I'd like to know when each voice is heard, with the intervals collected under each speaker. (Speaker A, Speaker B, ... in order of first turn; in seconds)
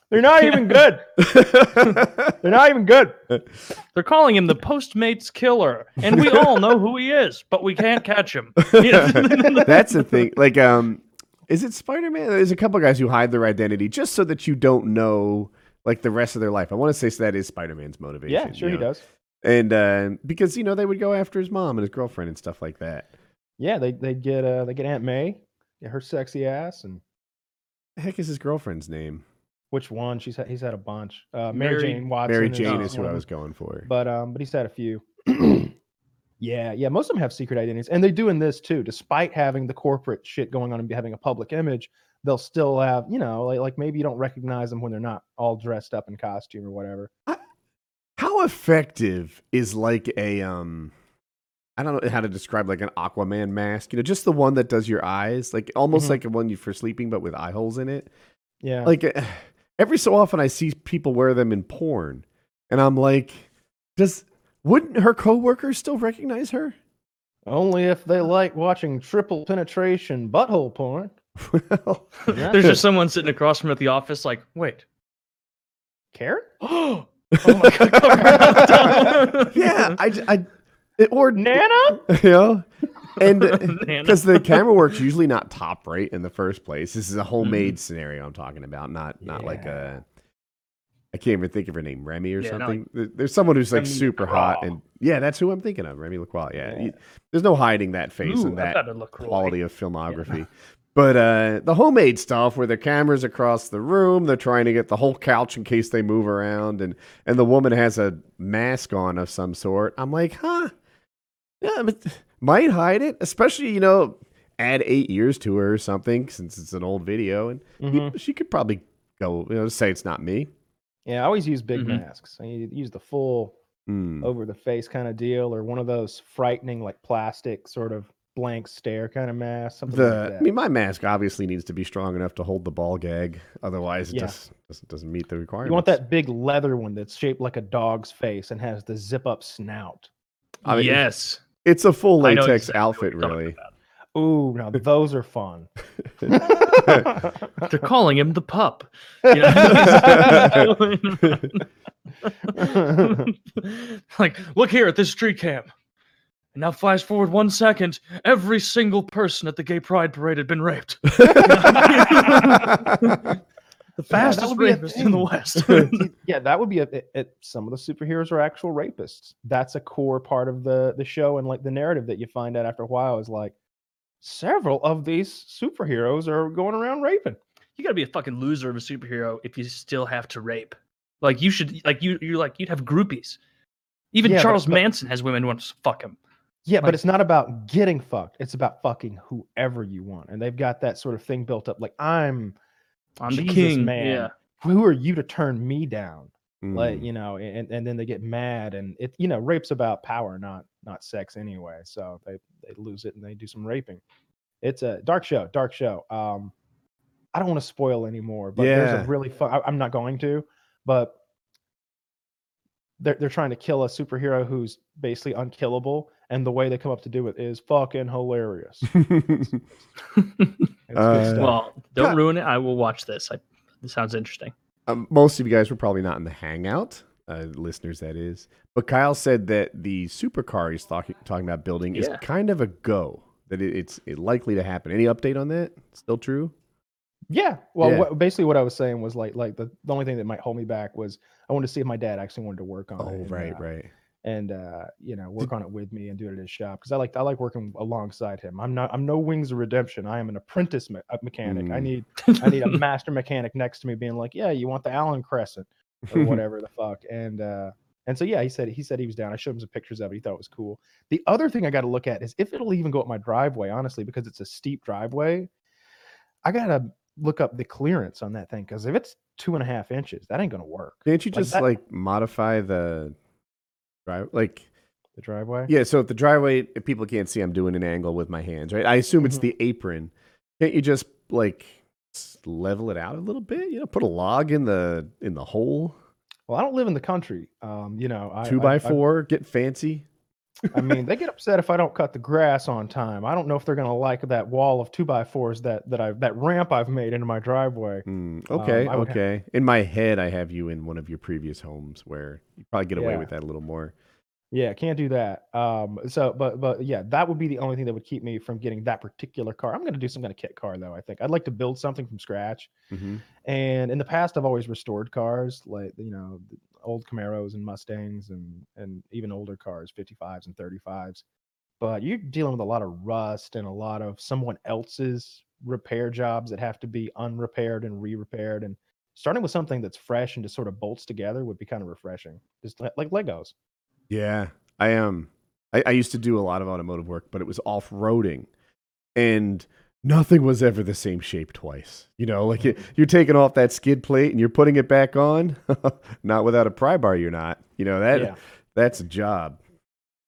Speaker A: 0.1-1.1, 2.4-3.1, 9.3-9.6, 18.3-19.0, 23.6-27.0, 29.7-33.2, 33.8-35.7, 36.4-47.1, 55.9-56.2, 58.6-58.9, 67.5-71.1, 72.3-72.8, 76.1-76.6, 77.5-79.2, 81.3-82.0, 89.2-89.9, 93.7-94.7, 96.6-96.9, 117.8-118.1, 121.0-123.5, 124.2-130.5, 134.1-134.4, 135.6-140.1, 144.1-145.7, 146.3-147.6, 149.3-150.7, 152.5-153.3, 161.3-162.5, 164.1-173.5, 174.2-177.4, 184.2-184.8, 186.7-192.6, 193.3-204.0, 204.6-206.5, 207.3-211.2, 213.0-219.5, 220.9-221.6, 237.3-243.6, 244.2-265.5, 266.4-271.6, 275.2-275.7, 286.5-289.0, 290.7-299.2, 302.9-303.3, 304.5-312.7, 313.4-321.2, 321.8-333.5
Speaker B: 1.2-2.3, 6.2-6.6, 8.7-18.9, 19.4-23.1, 27.9-29.2, 32.3-33.9, 48.2-50.9, 51.8-58.1, 58.8-66.8, 71.4-72.8, 77.4-77.7, 78.3-78.7, 79.5-90.0, 91.1-110.7, 111.6-120.5, 123.9-124.3, 129.9-136.0, 140.6-141.0, 141.6-143.6, 146.2-147.1, 149.7-150.7, 161.1-163.3, 165.6-165.9, 196.6-197.1, 208.6-209.1, 219.0-219.5, 220.9-222.2, 224.9-236.5, 237.8-238.1, 243.0-243.9, 251.4-251.9, 256.1-256.4, 271.1-273.1, 274.1-274.6, 275.7-285.9, 288.4-290.1, 298.1-303.9, 312.9-313.2, 334.1-338.5, 339.1-349.6
Speaker C: 3.9-9.9, 31.5-32.1, 32.6-33.0, 72.3-74.8, 76.6-80.0, 83.4-84.6, 87.4-87.7, 92.4-92.8, 98.2-99.6, 100.1-100.3, 121.7-122.0, 140.7-141.4, 142.2-143.7, 147.6-151.6, 152.2-155.7, 156.5-163.2, 164.0-166.1, 177.8-183.4, 184.1-186.2, 193.2-194.3, 220.1-220.6, 221.3-224.5, 231.9-232.2, 252.2-252.8